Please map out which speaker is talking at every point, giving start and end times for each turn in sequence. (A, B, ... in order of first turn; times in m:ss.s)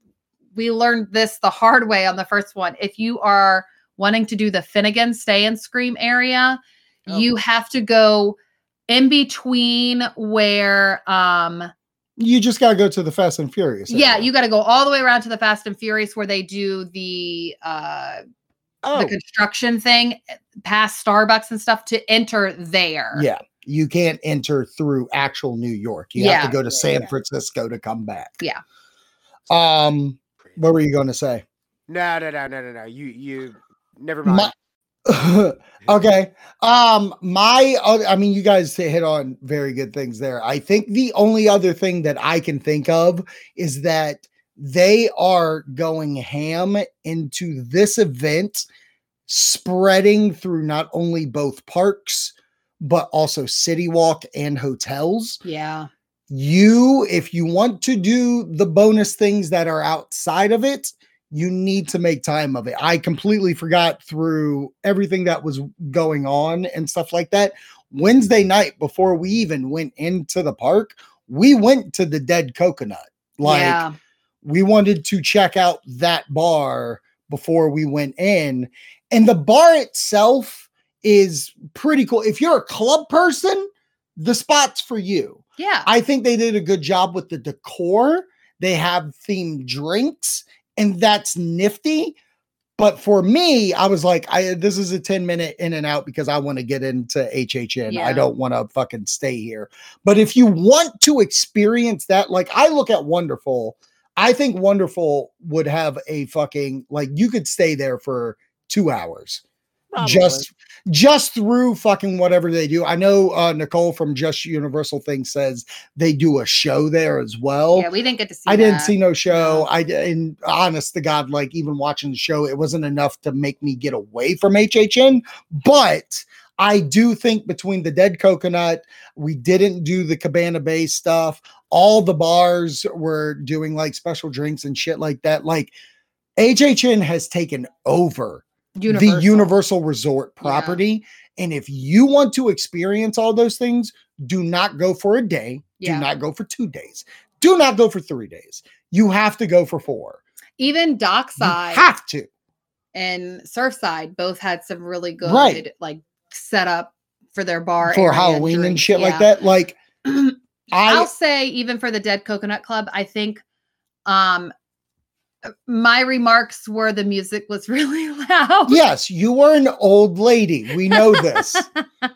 0:00.6-0:08.4 A
0:08.9-0:11.7 A
0:12.2-0:14.3 B
0:13.9-0:18.2 A
0:18.8-0:19.1 B
0:18.9-0:23.3 A
0:23.1-0:28.4 B
0:26.2-0:26.6 A
0:26.6-0:27.0 C
0:29.5-0:31.4 B
0:31.9-0:34.5 C
0:34.2-0:34.5 B
0:35.0-0:48.6 B
0:49.3-0:55.4 B
0:55.4-0:55.9 A
0:56.3-1:13.8 B
1:13.4-1:13.9 A
1:14.4-1:32.2 B
1:25.6-1:25.9 A
1:32.8-1:49.4 B
1:37.9-1:38.3 A
1:49.9-1:50.5 C
1:50.0-1:57.9 B
1:57.7-1:59.7 A
1:58.5-2:15.7 B
2:16.4-2:30.2 B
2:18.8-2:19.5 A
2:20.4-2:20.8 A
2:25.8-2:26.1 A
2:30.6-2:31.8 A
2:31.4-2:32.3 B
2:32.9-2:39.3 A
2:35.2-2:35.6 B
2:37.8-2:39.8 B
2:40.0-2:40.4 A
2:40.7-2:41.1 B
2:40.9-2:43.4 A
2:44.0-2:44.5 A
2:45.7-2:48.8 A
2:48.7-2:51.7 B
2:50.9-2:51.8 A